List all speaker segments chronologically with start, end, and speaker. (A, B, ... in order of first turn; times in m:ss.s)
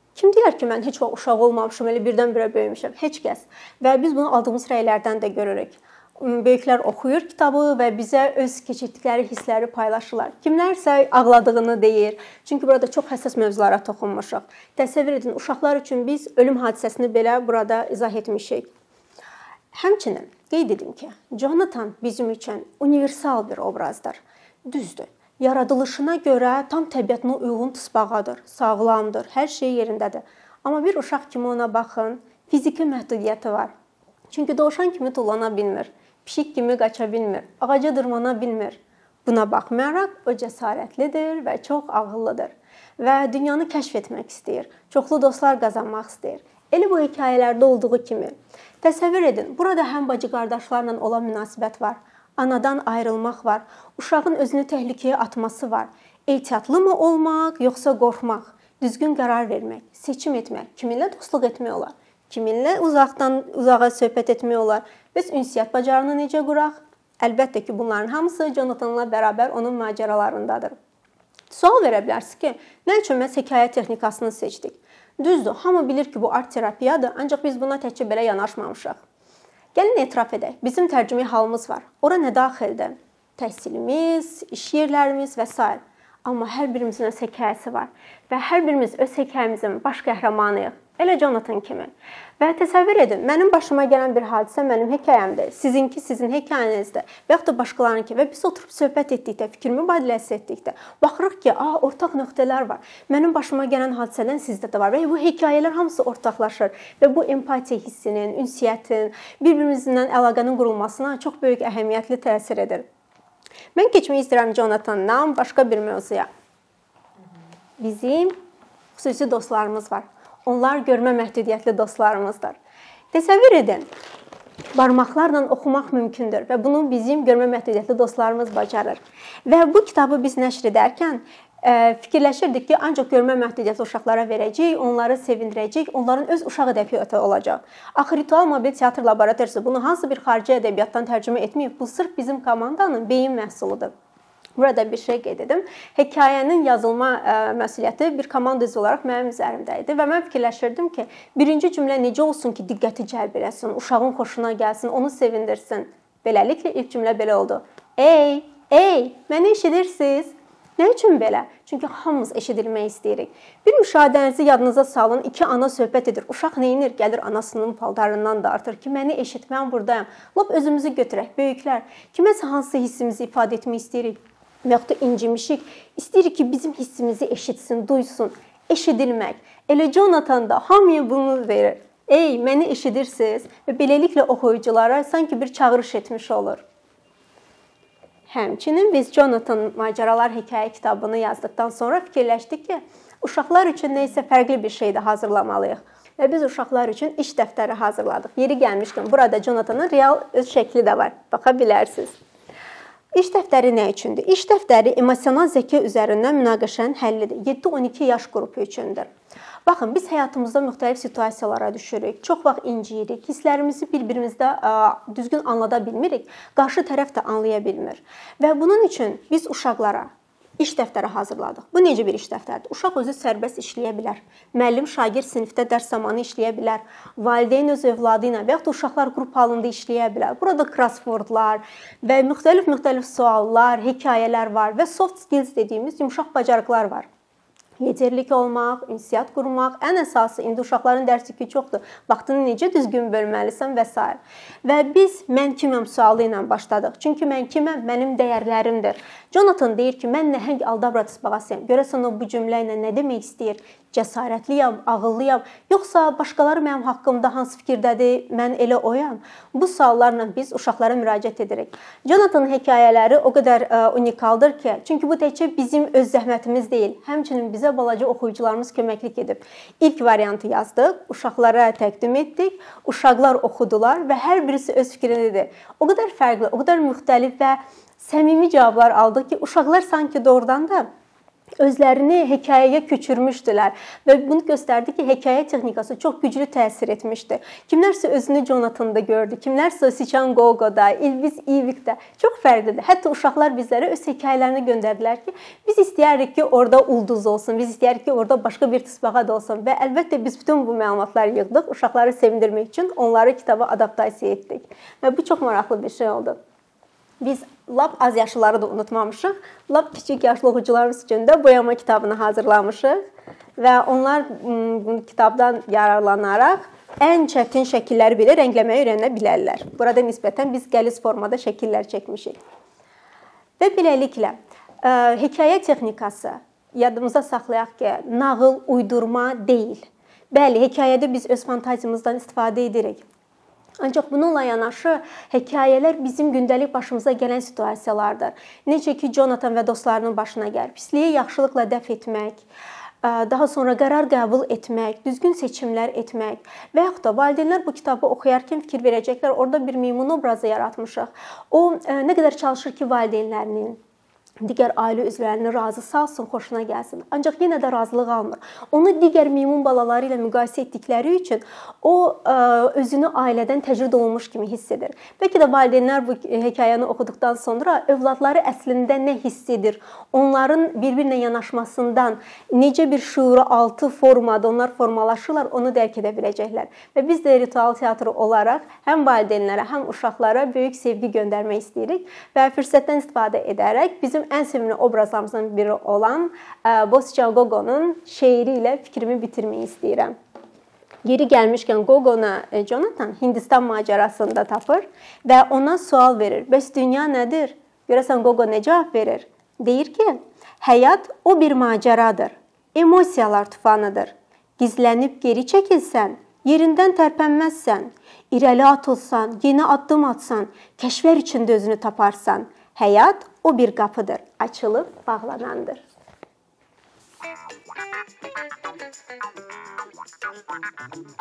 0:00.1-0:18.7 A
0:19.7-0:33.7 A
0:34.3-1:10.7 A
1:11.5-1:19.0 A
1:19.7-1:52.8 A
1:53.7-1:56.3 A
1:57.8-1:58.3 A
1:59.0-2:02.6 A
2:03.1-2:03.8 A
2:04.7-2:23.9 A
2:24.6-3:06.6 A
3:08.3-3:22.1 A
3:23.1-3:29.1 A
3:29.6-3:57.1 A
3:57.8-4:40.9 A
4:41.6-5:06.4 A
5:07.2-5:13.0 A
5:13.6-5:22.4 A
5:23.6-5:33.0 A
5:33.8-5:42.4 A
5:43.0-5:53.8 A
5:54.4-6:30.1 A
6:31.0-6:55.8 A